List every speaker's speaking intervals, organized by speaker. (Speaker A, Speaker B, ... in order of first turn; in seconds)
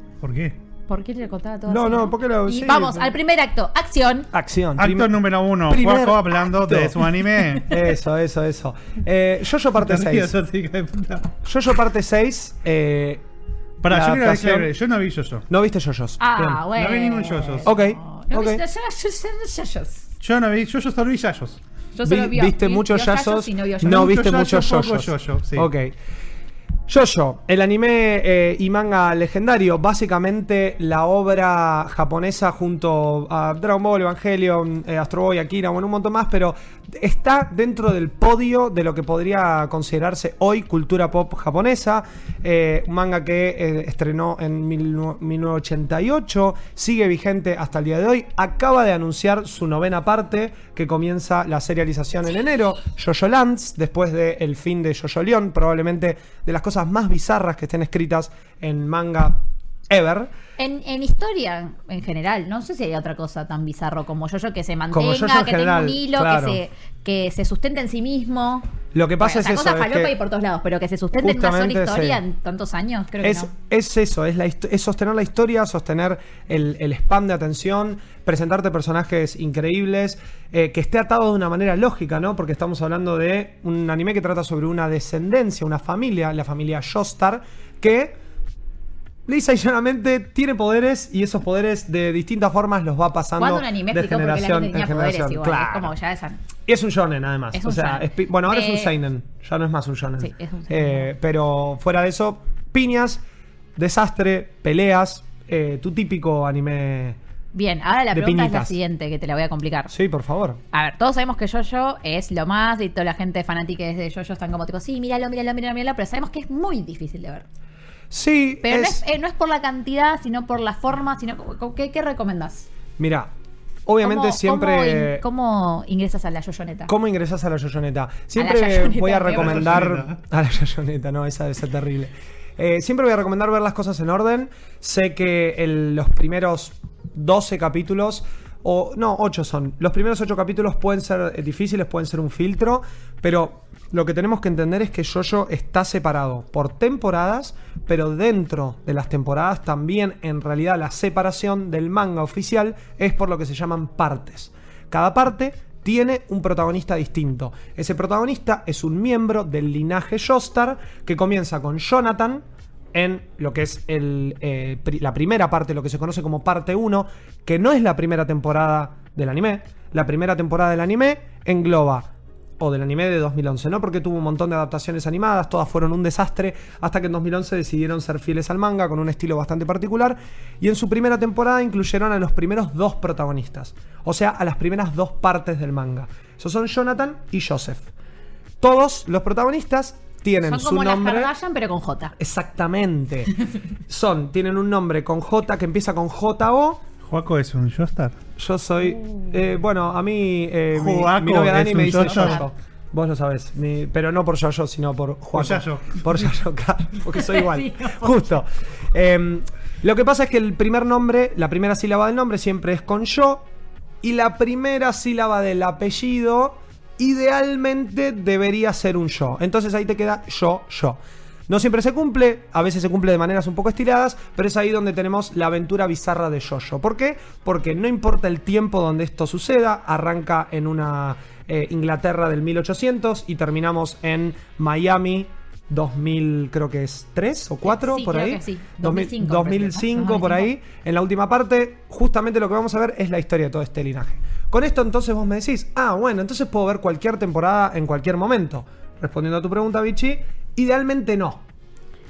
Speaker A: 0.2-0.6, 4.8-7.8, 9.8-11.3, 13.8-15.5, 16.7-17.7, 20.2-21.6, 23.8-25.7, 129.3-130.2, 197.0-198.2, 200.7-202.4, 205.3-206.3
Speaker B: 0.9-4.3, 16.2-20.1, 21.9-24.1, 60.6-68.7, 69.2-73.5, 93.4-96.4, 97.5-99.0, 100.2-101.1, 107.5-109.9, 110.7-117.5, 118.6-122.7, 124.0-126.9, 128.4-129.8, 190.4-192.2, 198.8-199.3, 201.9-202.5, 207.1-208.3, 237.7-240.5
Speaker C: 1.7-3.1, 4.3-10.3, 11.4-13.2, 13.9-14.7, 15.5-16.6, 17.6-18.6, 22.1-25.9, 26.9-60.3, 64.9-66.6, 68.9-70.1, 71.2-72.2, 73.2-88.2, 89.3-95.9, 96.7-103.2, 103.8-107.2, 108.1-108.8, 109.9-110.6, 118.1-119.0, 123.0-123.3, 123.9-125.2, 126.9-172.1, 172.6-187.9, 188.6-191.3, 192.2-193.3, 193.9-196.8, 198.4-213.5, 214.0-251.4